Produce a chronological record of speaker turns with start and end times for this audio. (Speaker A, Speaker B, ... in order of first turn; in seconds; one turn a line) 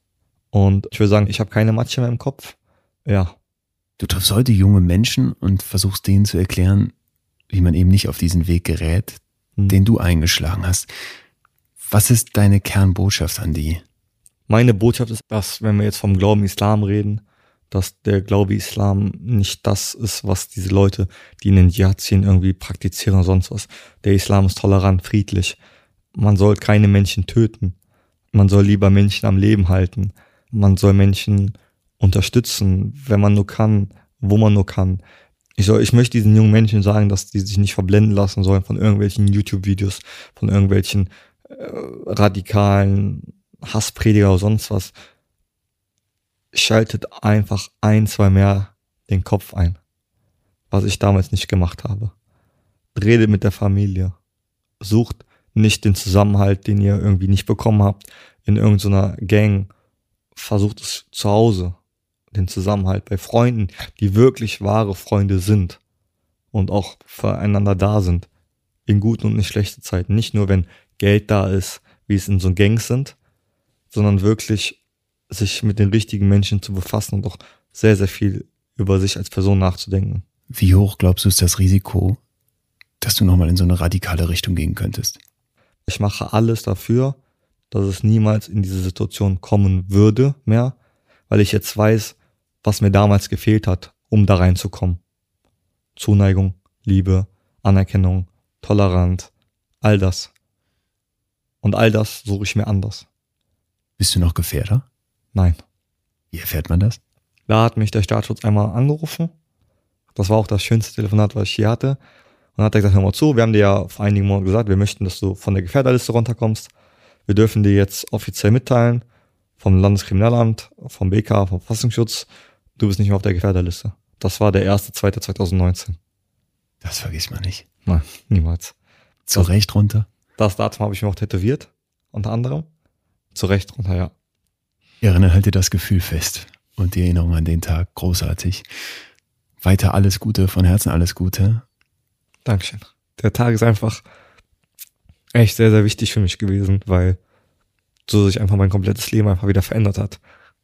Speaker A: 0.5-3.4
Speaker B: 4.0-6.9
Speaker B: 7.5-10.9
Speaker B: 11.8-13.8
Speaker A: 14.5-25.6
Speaker A: 26.1-27.8
Speaker A: 28.3-35.0
Speaker A: 35.6-44.9
Speaker A: 46.5-49.8
Speaker A: 50.7-52.1
Speaker A: 52.9-54.1
Speaker A: 54.8-59.7
Speaker A: 60.3-61.8
Speaker A: 62.3-65.8
Speaker A: 66.5-68.3
Speaker A: 68.8-73.1
Speaker A: 73.9-74.8
Speaker A: 75.3-80.2
Speaker B: 80.5-82.2
Speaker B: 83.0-85.2
Speaker A: 85.8-87.2
Speaker A: 87.7-90.7
Speaker A: 91.3-95.0
Speaker A: 96.0-100.3
Speaker A: 101.6-103.0
Speaker B: 104.0-104.8
Speaker A: 105.3-105.6
Speaker B: 106.3-107.0
Speaker A: 107.5-109.3
Speaker A: 110.1-112.0
Speaker A: 112.5-116.7
Speaker A: 117.3-119.0
Speaker A: 119.6-122.3
Speaker A: 122.8-126.0
Speaker B: 126.8-127.6
Speaker A: 127.8-128.7
Speaker B: 129.3-130.1
Speaker A: 130.4-132.7
Speaker A: 133.3-134.1
Speaker B: 135.0-138.6
Speaker B: 139.6-141.6
Speaker A: 142.4-144.0
Speaker A: 145.3-147.2
Speaker A: 148.1-150.2